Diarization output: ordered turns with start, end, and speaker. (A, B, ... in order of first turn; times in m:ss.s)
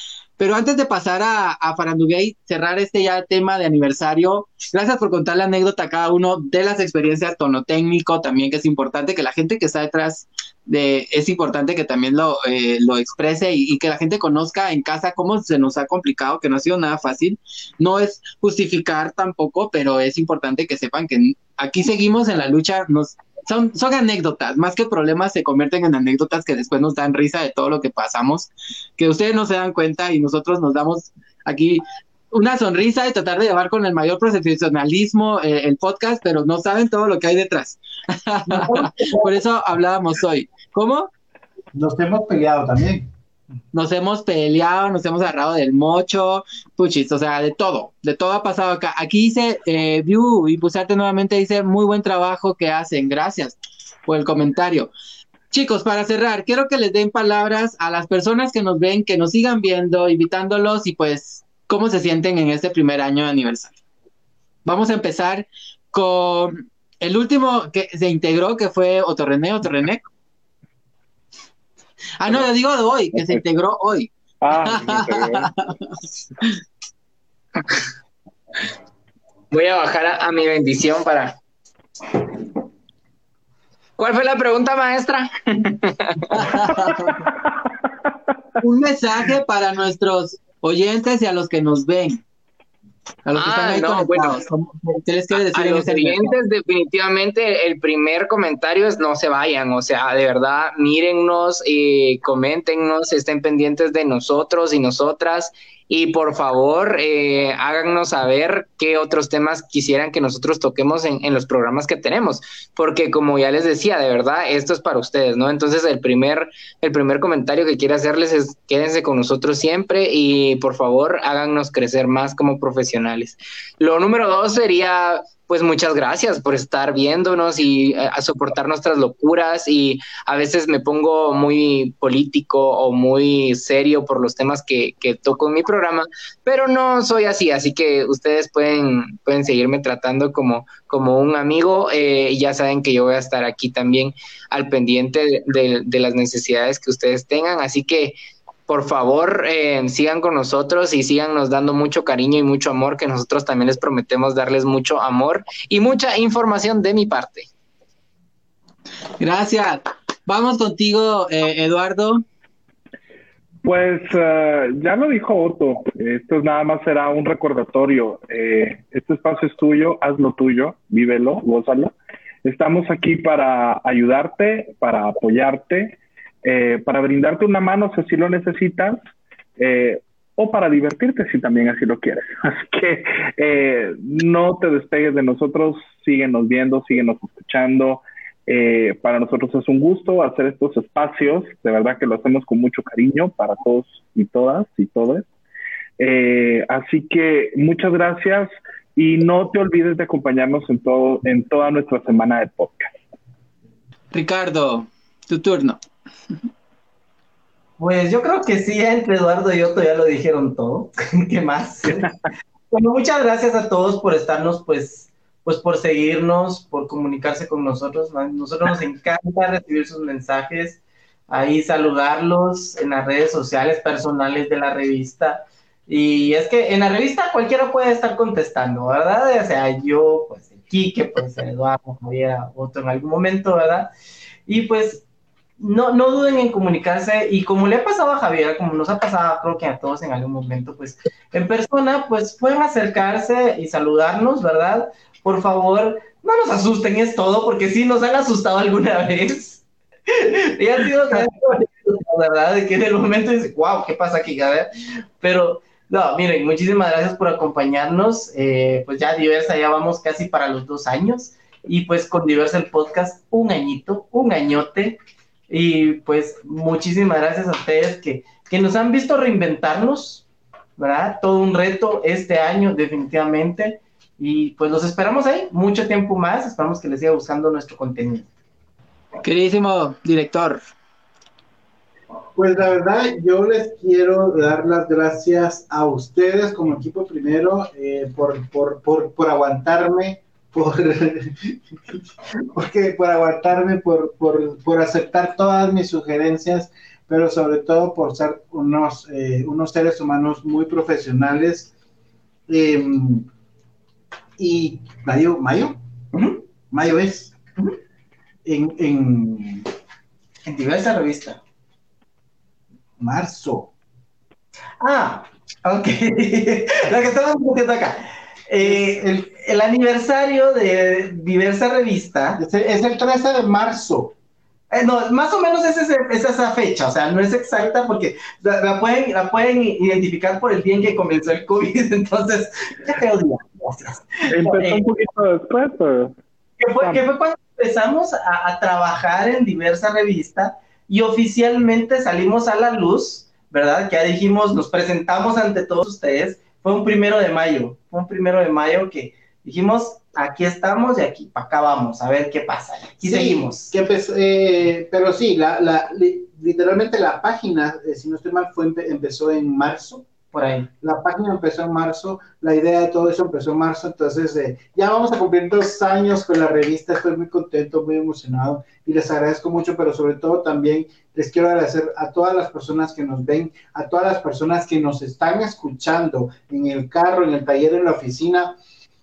0:00.4-0:41.1 A
0:38.5-0:39.4 B
0:41.7-0:43.1 B
0:43.7-0:53.6 A
0:54.1-0:54.9 A
0:55.5-1:03.8 A
1:04.6-1:10.0 A
1:12.2-1:15.9 A
1:14.4-1:15.5 C
1:19.5-1:21.4 D
1:24.0-1:26.5 D
1:26.3-1:27.2 A
1:28.6-1:32.2 A
1:33.3-1:36.4 A
1:33.4-1:34.4 D
1:35.4-2:28.2 D
2:28.7-2:37.5 D
2:39.2-2:42.2 A
2:43.6-2:59.0 C
2:59.6-3:15.3 C
3:16.0-3:22.9 C
3:24.1-3:25.8 A
3:27.8-3:32.1 E
3:31.8-3:32.1 C
3:32.7-3:53.9 E
3:54.5-3:55.0 E
3:55.6-4:25.0 E
4:25.5-4:30.2 E
4:30.8-4:38.3 E
4:39.2-4:40.6 A
4:42.4-4:51.6 B
4:52.5-5:01.7 B
5:02.5-5:03.3 B
5:04.4-5:05.8 B
5:06.1-5:06.4 E
5:06.7-5:07.4 B
5:08.4-5:09.7 B
5:10.4-5:11.4 E
5:13.0-5:13.7 B
5:14.8-5:22.4 E
5:18.6-5:19.3 B
5:22.4-5:24.1 B
5:24.7-5:34.8 E
5:34.3-5:36.1 C
5:36.6-5:53.7 E
5:53.0-6:00.1 B
6:00.3-6:00.7 E
6:00.8-6:18.6 B